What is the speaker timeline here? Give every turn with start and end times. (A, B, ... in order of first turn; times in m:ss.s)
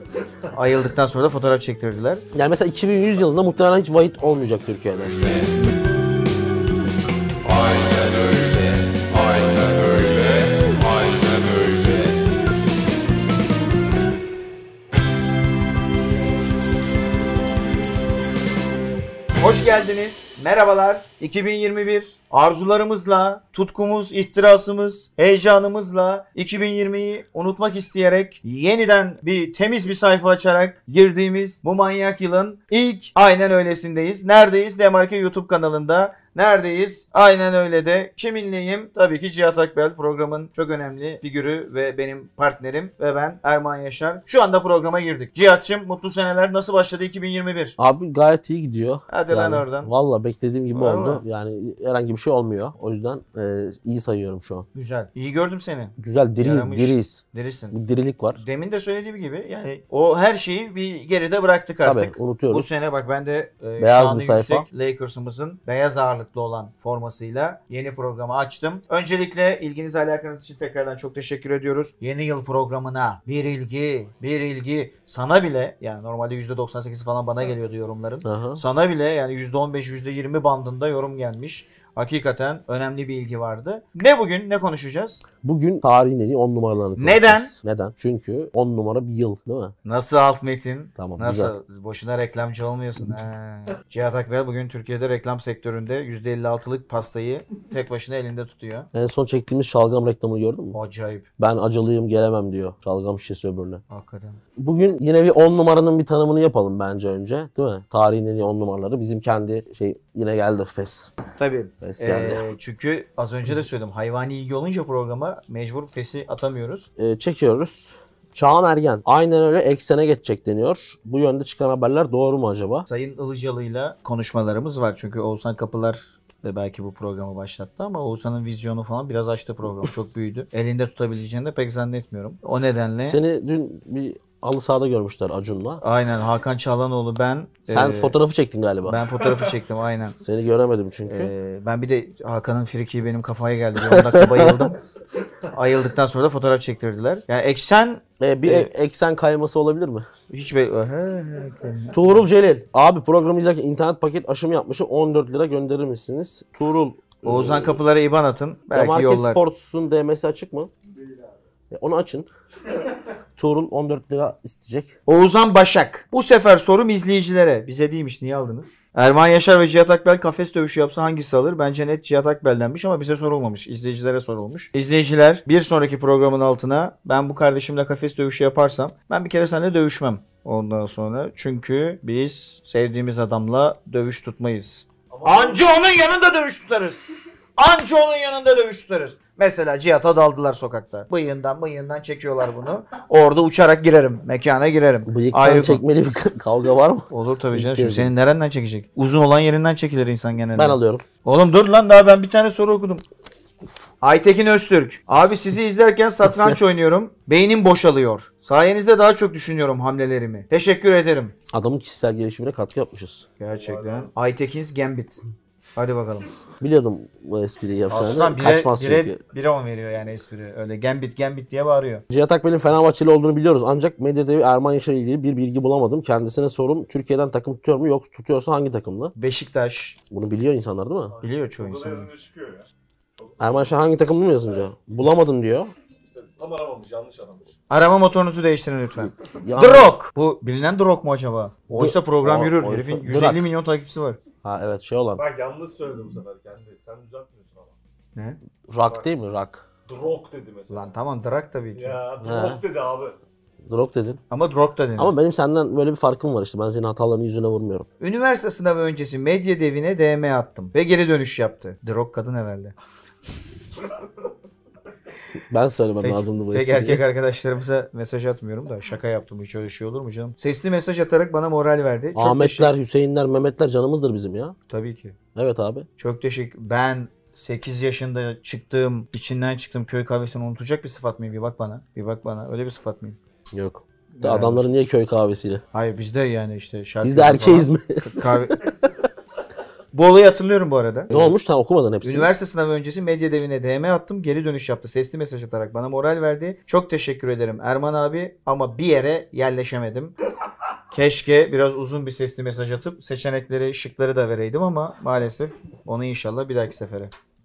0:00.5-0:02.2 A
0:02.3-0:05.5 B
0:19.4-0:47.8 A
0:47.8-0:54.7 B
0:49.1-0:49.9 A
0:50.7-0:51.2 A
0:54.7-0:57.8 A
0:56.0-0:58.4 B
0:58.3-1:25.2 A
1:01.8-1:02.7 B
1:03.8-1:04.7 B
1:18.2-1:18.6 B
1:25.4-1:29.7 B
1:27.0-1:27.5 A
1:29.8-1:38.9 A
1:31.0-1:31.5 B
1:38.9-1:40.8 B
1:40.7-1:41.3 A
1:41.4-1:43.8 B
1:43.9-1:44.4 A
1:44.6-1:51.1 B
1:51.4-1:56.9 A
1:51.8-1:52.4 B
1:57.0-2:02.9 B
2:02.9-2:13.2 A
2:13.0-2:15.8 B
2:15.8-2:18.2 A
2:17.7-2:19.0 B
2:18.8-2:20.2 A
2:20.2-2:21.3 B
2:21.1-2:24.8 A
2:23.8-2:24.7 B
2:25.5-2:28.7 A
2:28.2-2:30.1 B
2:30.3-2:32.2 A
2:31.9-2:37.8 B
2:37.2-2:39.4 A
2:38.7-2:40.7 B
2:41.7-2:42.3 B
2:43.4-2:44.9 B
2:45.1-3:07.0 A
3:05.1-3:05.7 C
3:07.6-3:15.8 A
3:15.1-3:18.1 B
3:17.1-3:23.0 A
3:20.6-3:21.0 B
3:24.0-3:31.3 A
3:26.2-3:26.6 B
3:31.5-3:33.2 B
3:33.4-3:35.2 A
3:33.4-3:34.1 C
3:35.8-3:36.3 A
3:36.6-3:39.2 B
3:37.9-3:42.0 A
3:42.1-3:49.1 B
3:49.2-3:50.0 A
3:50.1-3:51.1 B
3:51.1-3:53.7 C
3:51.2-3:52.1 A
3:53.4-3:55.7 B
3:56.0-3:57.5 C
3:57.7-4:04.2 A
3:59.4-4:00.0 B
4:01.7-4:03.4 B
4:04.4-4:05.2 B
4:05.2-4:07.7 C
4:08.7-4:09.7 B
4:08.8-4:09.1 C
4:09.9-4:10.9 C
4:10.7-4:12.0 A
4:11.8-4:13.2 C
4:12.2-4:12.6 B
4:13.7-4:14.2 B
4:14.3-4:15.1 A
4:15.0-4:17.9 B
4:18.0-4:22.7 A
4:25.4-4:27.0 B
4:26.0-4:32.7 A
4:32.2-4:34.6 B
4:34.7-4:35.2 A
4:35.4-4:35.9 B
4:36.0-4:43.2 A
4:43.5-4:45.6 B
4:44.1-4:44.7 A
4:45.7-4:48.6 A
4:47.0-4:48.7 B
4:49.9-4:51.4 A
4:51.1-4:52.3 B
4:52.0-5:00.1 A
5:00.9-5:07.1 A